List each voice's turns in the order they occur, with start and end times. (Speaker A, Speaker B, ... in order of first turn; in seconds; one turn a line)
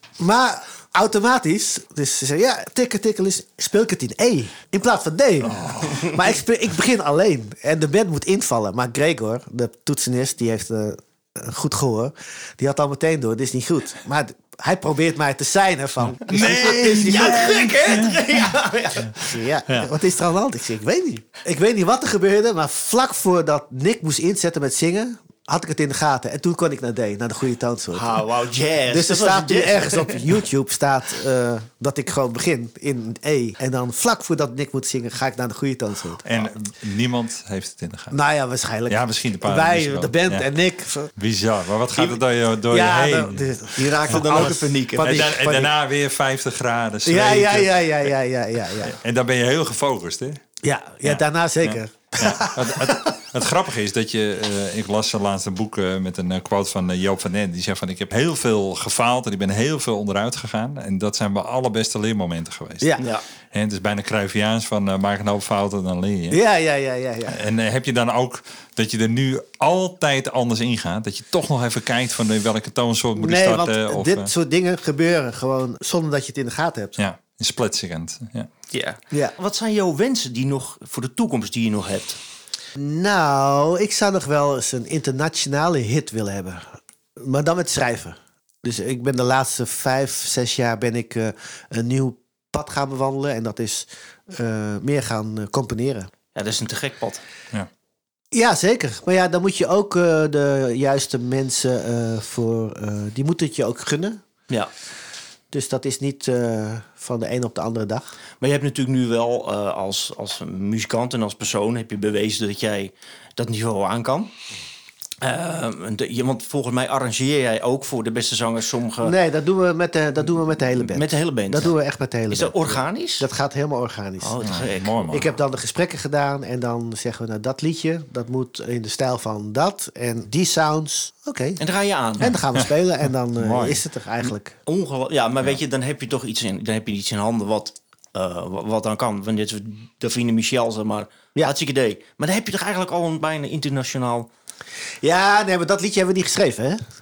Speaker A: 0.2-17.7
Speaker B: 5.4-6.2
Speaker B: 16.3-18.2
Speaker C: 16.3-19.3
Speaker A: 19.1-28.2
Speaker C: 27.9-30.3
Speaker A: 28.9-36.5
Speaker B: 36.2-38.2
Speaker A: 38.1-41.1
Speaker B: 38.9-40.5
Speaker B: 41.2-43.6
Speaker A: 42.7-45.7
Speaker C: 43.8-45.3
Speaker B: 44.1-48.1
Speaker A: 47.0-49.0
Speaker B: 48.8-50.4
Speaker A: 50.6-53.1
Speaker B: 51.0-62.9
Speaker A: 62.8-63.0
Speaker B: 63.5-66.4
Speaker A: 66.3-67.4
Speaker B: 67.3-74.3
Speaker A: 73.2-77.0
Speaker B: 77.0-78.5
Speaker C: 78.7-82.2
Speaker A: 82.8-96.1
Speaker C: 96.3-97.2
Speaker A: 98.3-104.2
Speaker A: 105.5-108.1
Speaker C: 108.4-114.3
Speaker C: 115.2-119.1
Speaker A: 119.0-131.6
Speaker C: 120.8-121.7
Speaker C: 122.3-123.2
Speaker C: 124.2-125.2
Speaker B: 124.4-125.2
Speaker C: 131.6-132.3
Speaker A: 132.2-134.6
Speaker B: 132.2-132.7
Speaker B: 133.4-133.8
Speaker C: 134.7-144.3
Speaker A: 145.0-146.8